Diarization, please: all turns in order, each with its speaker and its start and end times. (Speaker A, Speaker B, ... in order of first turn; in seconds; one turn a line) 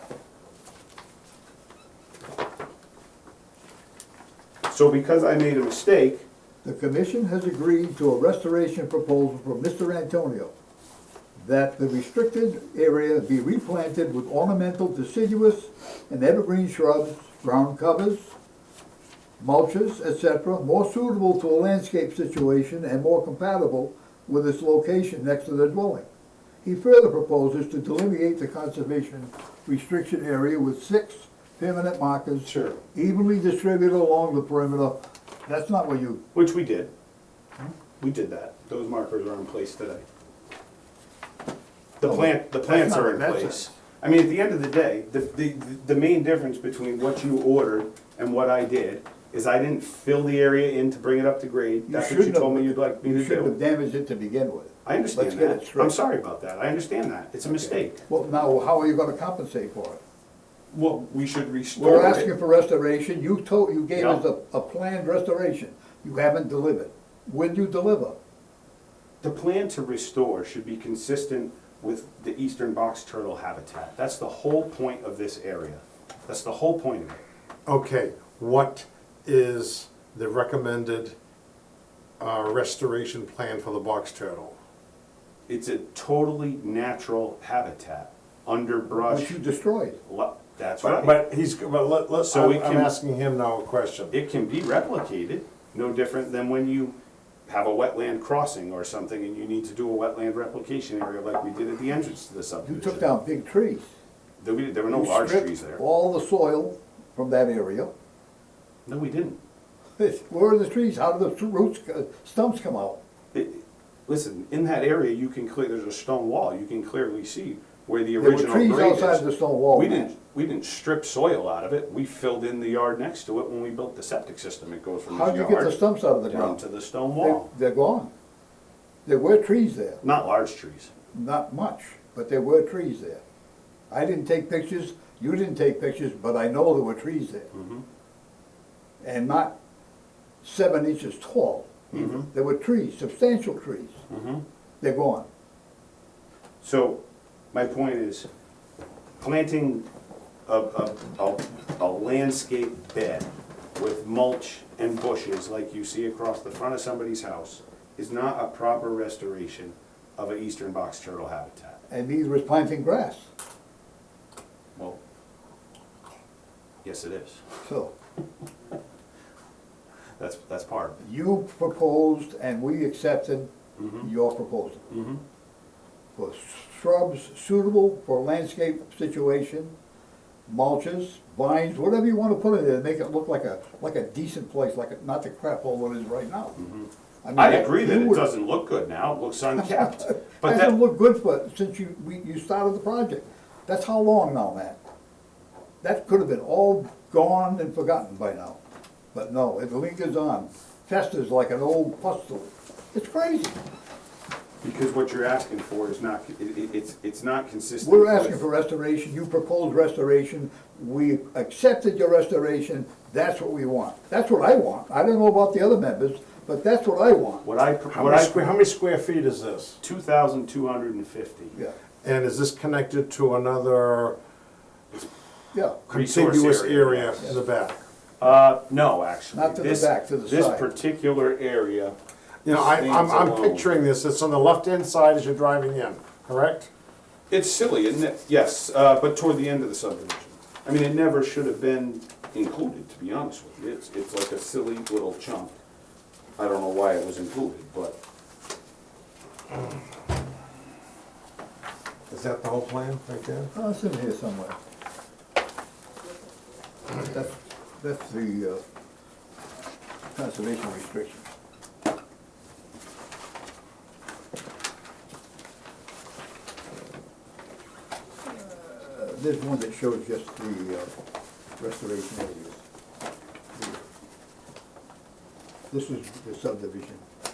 Speaker A: 4.7-6.2
Speaker B: 6.6-10.5
Speaker B: 11.4-18.3
Speaker B: 19.4-26.0
Speaker B: 26.6-36.2
Speaker A: 32.4-32.8
Speaker A: 36.3-36.9
Speaker A: 38.0-40.0
Speaker A: 42.0-53.5
Speaker B: 42.0-43.7
Speaker B: 51.9-56.0
Speaker A: 54.8-58.0
Speaker B: 57.4-60.0
Speaker A: 60.7-62.3
Speaker B: 61.8-68.1
Speaker A: 63.9-64.2
Speaker A: 69.2-77.2
Speaker C: 77.7-81.1
Speaker C: 82.2-84.5
Speaker A: 85.5-89.4
Speaker B: 89.0-90.0
Speaker A: 90.0-91.2
Speaker C: 90.8-94.1
Speaker A: 92.2-92.9
Speaker A: 94.1-97.0
Speaker A: 97.5-103.1
Speaker B: 102.6-103.9
Speaker A: 104.4-105.8
Speaker B: 104.9-107.9
Speaker A: 108.8-109.4
Speaker B: 110.0-113.0
Speaker A: 113.3-127.5
Speaker B: 118.2-120.1
Speaker B: 125.1-126.6
Speaker B: 127.2-128.1
Speaker B: 129.0-130.0
Speaker A: 130.0-130.9
Speaker B: 131.1-133.2
Speaker B: 133.9-137.5
Speaker A: 137.5-137.8
Speaker B: 139.0-139.5
Speaker B: 140.4-144.0
Speaker A: 141.9-142.3
Speaker A: 144.1-144.4
Speaker B: 144.8-145.2
Speaker A: 146.6-147.0
Speaker A: 147.5-148.3
Speaker A: 149.2-149.9
Speaker A: 150.4-161.8
Speaker B: 161.9-163.3
Speaker A: 166.8-167.4
Speaker B: 167.6-167.9
Speaker A: 170.2-171.0
Speaker B: 171.0-174.8
Speaker A: 173.8-174.1
Speaker A: 174.9-175.2
Speaker B: 176.2-179.7
Speaker B: 180.5-186.6
Speaker A: 186.6-190.7
Speaker B: 187.2-188.3
Speaker B: 189.7-194.8
Speaker B: 195.8-198.6
Speaker B: 199.1-203.6
Speaker A: 204.6-208.4
Speaker B: 207.8-217.4
Speaker A: 217.4-218.6
Speaker C: 217.9-219.8
Speaker A: 219.8-221.6
Speaker C: 222.0-224.2
Speaker B: 225.5-225.8
Speaker A: 225.9-227.3
Speaker C: 225.9-227.8
Speaker A: 228.2-233.8
Speaker B: 229.3-230.7
Speaker C: 232.4-236.7
Speaker A: 237.3-245.5
Speaker A: 246.4-248.0
Speaker C: 252.1-253.5
Speaker B: 253.5-254.6
Speaker B: 256.9-258.6
Speaker B: 260.1-261.2
Speaker B: 268.2-270.9
Speaker B: 271.6-272.6
Speaker B: 273.5-273.8
Speaker B: 275.7-277.0